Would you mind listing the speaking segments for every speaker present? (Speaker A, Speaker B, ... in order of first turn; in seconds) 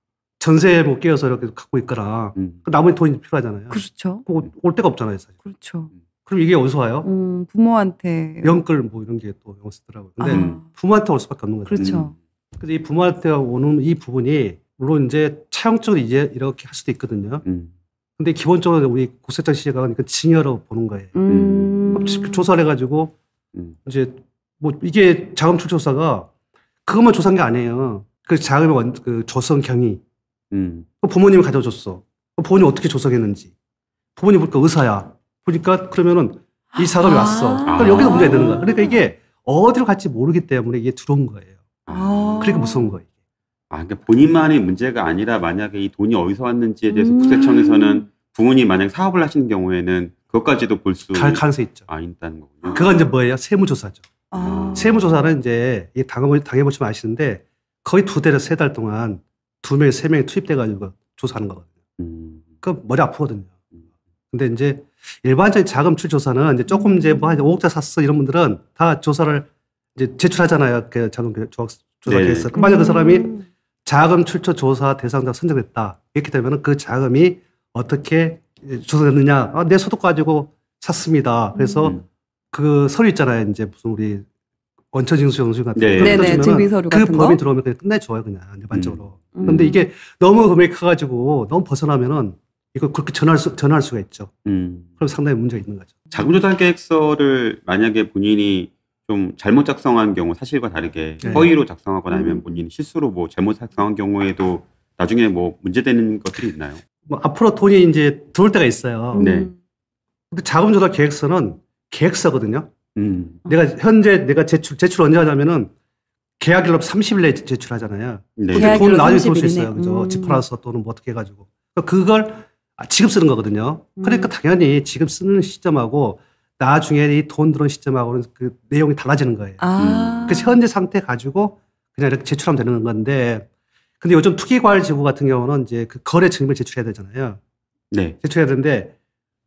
Speaker A: 0.4-5.3, 6.2-7.1, 8.4-12.0, 12.6-17.4, 18.2-21.3, 21.9-23.1, 23.8-26.3, 26.9-30.0, 31.0-33.5, 34.2-41.6, 42.4-43.1, 51.1-51.9, 52.7-54.0, 54.7-61.7, 62.6-63.5, 64.3-73.3, 73.8-82.0, 82.5-84.2, 84.9-94.3, 95.0-96.0, 101.2-101.5, 107.1-109.3, 110.3-112.7, 113.4-115.7, 116.4-129.7, 130.3-133.5, 134.0-137.4, 138.2-138.9
Speaker B: 3.7-4.2, 5.4-5.9, 7.0-8.6, 10.2-10.6, 11.7-12.1, 21.1-22.4, 36.9-39.0, 41.9-42.9, 46.9-48.0, 52.6-52.9, 54.3-55.2, 66.7-67.5, 72.5-73.4, 81.5-81.9, 86.0-87.4, 89.3-89.8, 101.2-101.5, 102.1-102.6, 109.1-109.5, 118.5-120.4, 124.0-124.3, 129.6-130.6
Speaker C: 10.3-10.6, 11.8-12.0, 17.4-17.7, 21.3-22.0, 30.5-30.9, 37.6-38.6, 41.9-42.6, 43.7-53.0, 54.4-55.1, 62.0-62.4, 72.0-72.5, 85.8-86.5, 88.7-89.7, 94.4-94.9, 96.1-106.8, 109.2-109.5, 112.9-113.4, 118.4-118.8, 129.8-130.3